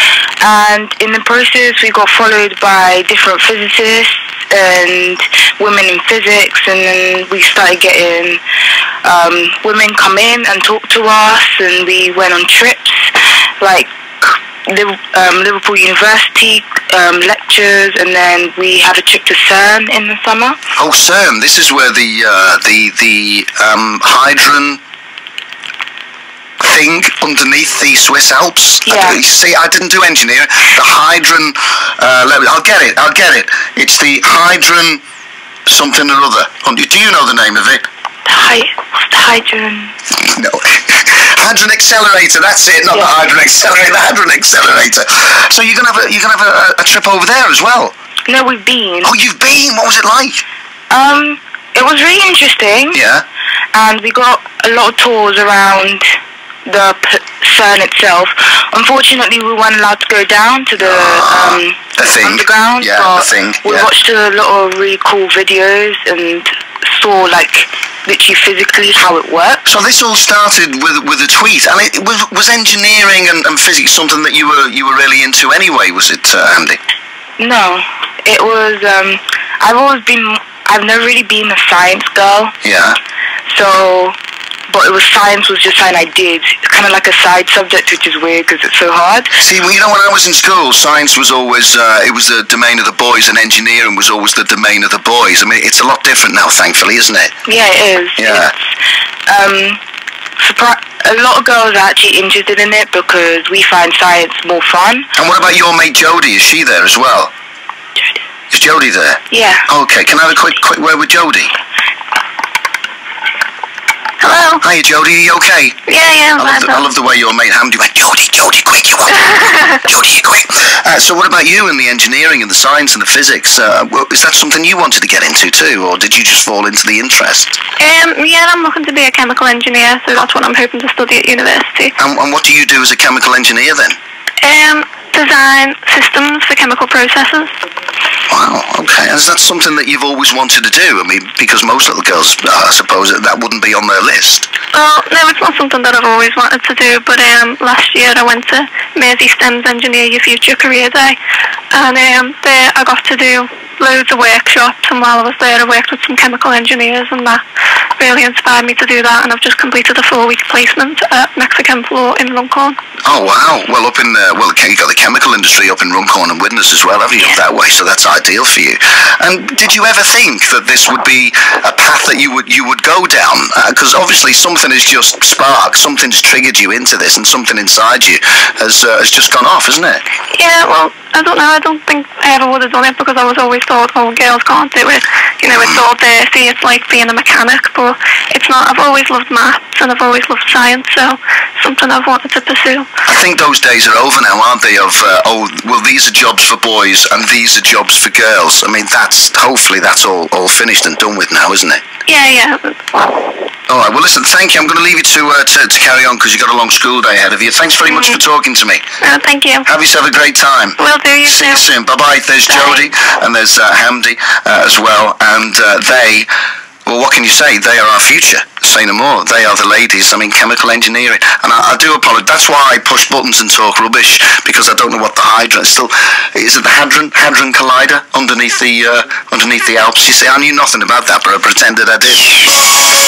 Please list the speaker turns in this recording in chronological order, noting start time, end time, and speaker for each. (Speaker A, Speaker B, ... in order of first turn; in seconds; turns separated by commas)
Speaker A: 0.4-8.4, Speaker A: 9.0-20.6, Speaker B: 20.8-24.8, Speaker B: 26.6-35.0, Speaker A: 28.9-29.2, Speaker B: 35.7-37.8, Speaker A: 38.2-39.9, Speaker B: 40.2-47.9, Speaker A: 48.3-49.1, Speaker B: 49.0-50.4, Speaker A: 50.9-53.0, Speaker B: 52.9-53.2, Speaker A: 53.7-56.0, Speaker A: 56.6-69.6, Speaker B: 60.8-63.9, Speaker B: 69.6-76.8, Speaker A: 77.4-82.5, Speaker B: 82.6-83.0, Speaker A: 83.5-84.1, Speaker A: 84.7-89.3, Speaker B: 89.4-97.3, Speaker A: 97.4-98.5, Speaker B: 98.2-98.5, Speaker A: 99.2-99.8, Speaker A: 100.4-105.1, Speaker B: 105.2-107.3, Speaker B: 108.5-111.5, Speaker A: 109.3-109.7, Speaker C: 114.2-114.6, Speaker B: 114.6-115.8, Speaker C: 115.9-116.9, Speaker B: 116.4-127.6, Speaker C: 119.3-119.6, Speaker C: 127.8-131.9, Speaker B: 132.0-134.0, Speaker C: 134.4-137.5, Speaker B: 138.3-144.5, Speaker C: 144.7-151.2, Speaker C: 151.7-157.4, Speaker C: 158.0-162.8, Speaker B: 163.1-180.0, Speaker C: 180.3-192.8, Speaker B: 193.1-201.8, Speaker C: 202.1-203.1, Speaker B: 203.7-208.8, Speaker C: 207.9-208.2, Speaker C: 209.0-209.7, Speaker B: 209.7-216.3, Speaker C: 210.8-211.7, Speaker C: 212.5-212.8, Speaker B: 216.8-232.5